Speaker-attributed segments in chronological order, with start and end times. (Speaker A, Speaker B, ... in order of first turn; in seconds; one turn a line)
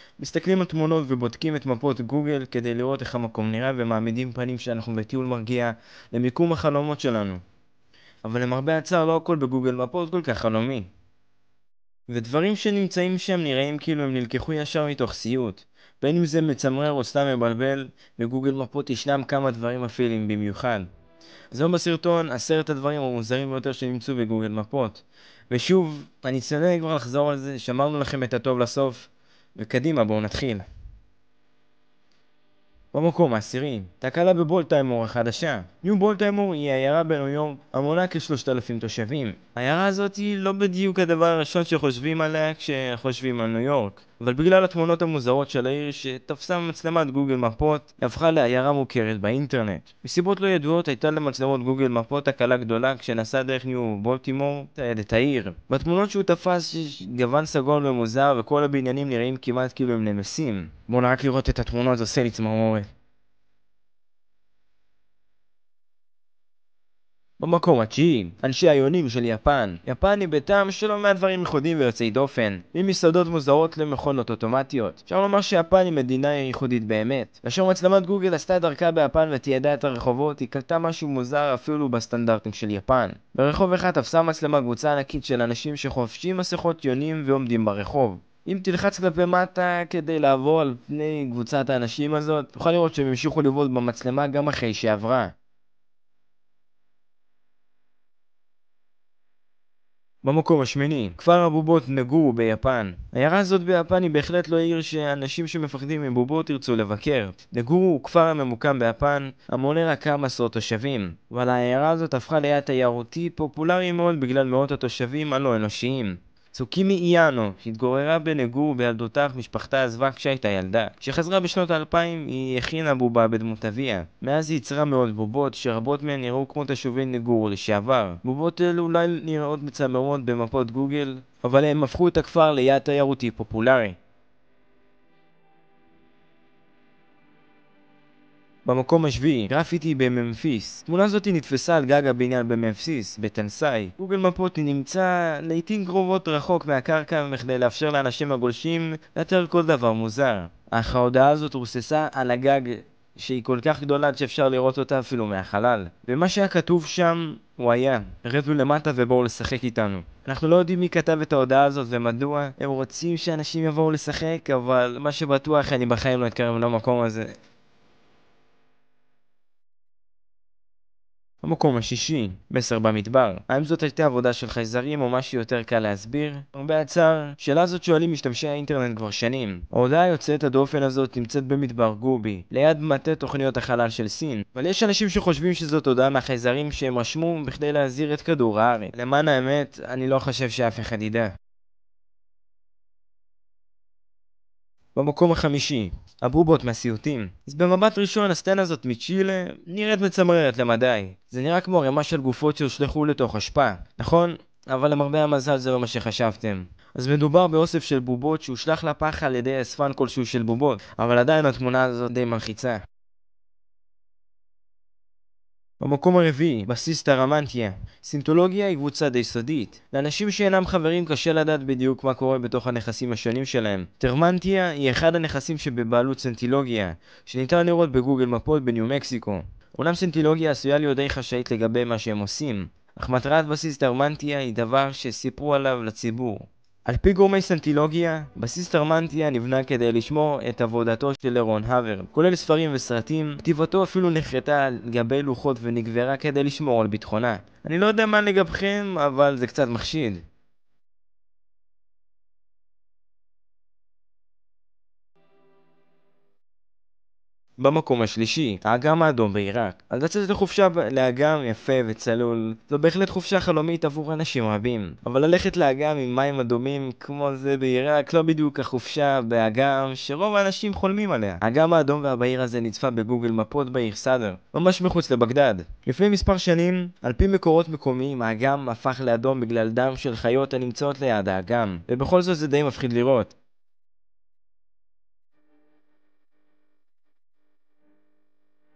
Speaker A: 0.2-7.4
Speaker A: 8.2-10.9
Speaker A: 12.1-20.9
Speaker A: 21.5-30.6
Speaker A: 32.9-62.9
Speaker A: 67.4-95.3
Speaker A: 100.2-134.0
Speaker A: 138.7-167.3
Speaker A: 171.4-191.3
Speaker A: 194.9-212.8
Speaker A: 215.8-250.2
Speaker A: 257.6-283.3